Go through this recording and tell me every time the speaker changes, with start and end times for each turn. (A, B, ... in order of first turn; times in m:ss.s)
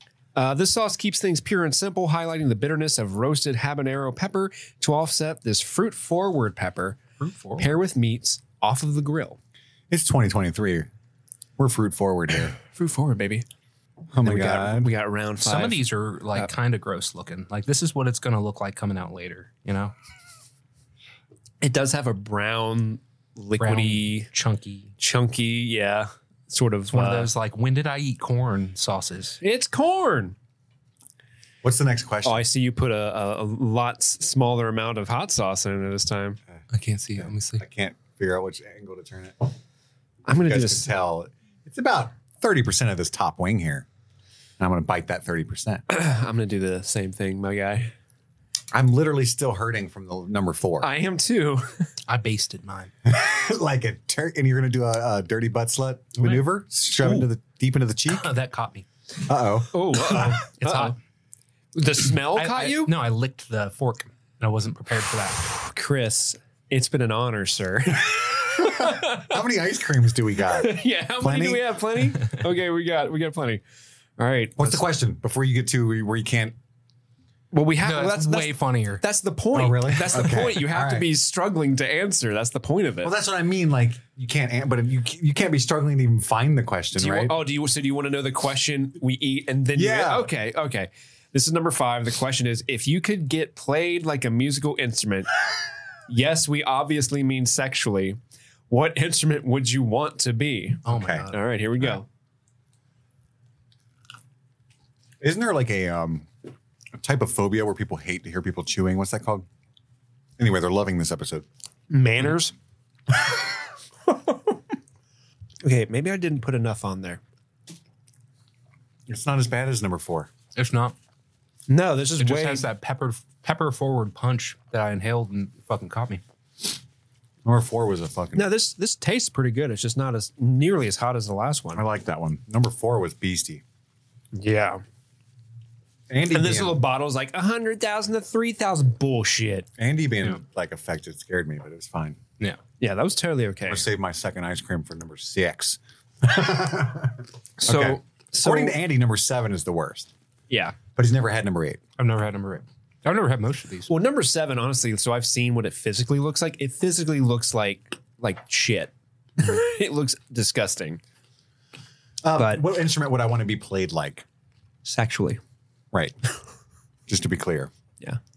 0:00.4-0:09.4 A
0:07.2-0:07.7 B
0:09.9-0:10.9 C
0:11.6-0:12.6 C
0:12.7-0:13.5 A
0:14.1-0:14.9 C
0:14.2-0:15.8 A
0:15.4-0:19.9 B
0:21.6-0:24.3 A
0:23.6-0:24.9 B
0:25.0-0:27.3 A
0:26.9-0:29.4 B
0:29.4-0:30.4 A
0:31.6-0:32.4 C
0:32.2-0:36.4 A
0:36.7-0:37.6 B
0:37.2-0:39.5 C
0:40.3-0:40.9 A
0:40.4-0:43.9 C
0:44.6-0:45.8 C
0:45.9-0:47.9 A
0:48.7-0:50.9 C
0:50.8-0:51.9 A
0:52.1-0:52.9 B
0:53.0-0:58.3 C
0:58.1-0:58.9 B
0:59.3-1:00.4 C
0:59.7-1:01.0 A
1:00.6-1:01.0 B
1:01.8-1:03.0 A
1:02.3-1:05.5 B
1:05.4-1:09.3 A
1:08.6-1:11.6 C
1:10.5-1:13.6 A
1:14.2-1:14.8 A
1:14.6-1:16.6 C
1:17.5-1:23.1 A
1:17.8-1:19.0 B
1:19.5-1:21.1 C
1:23.0-1:27.4 C
1:27.0-1:35.3 A
1:29.8-1:30.3 C
1:36.1-1:38.2 A
1:38.7-1:42.1 A
1:40.9-1:41.6 B
1:40.9-1:41.3 C
1:45.2-1:46.3 C
1:47.0-1:49.5 C
1:50.4-1:51.5 C
1:51.9-1:52.5 A
1:54.1-1:54.6 A
1:55.6-1:57.2 A
1:59.1-2:00.3 C
2:00.6-2:01.0 B
2:01.7-2:02.7 A
2:02.2-2:06.2 B
2:07.4-2:08.5 C
2:08.4-2:11.8 A
2:11.8-2:13.6 C
2:14.4-2:14.8 A
2:16.1-2:16.8 C
2:16.3-2:19.7 A
2:19.8-2:22.2 C
2:22.8-2:23.9 A
2:23.7-2:30.1 C
2:27.6-2:28.8 A
2:30.5-2:30.8 A
2:31.0-2:31.8 C
2:32.0-2:33.9 B
2:33.9-2:41.0 A
2:42.2-2:44.2 C
2:42.4-2:42.6 A
2:44.8-2:45.4 A
2:47.1-2:47.7 C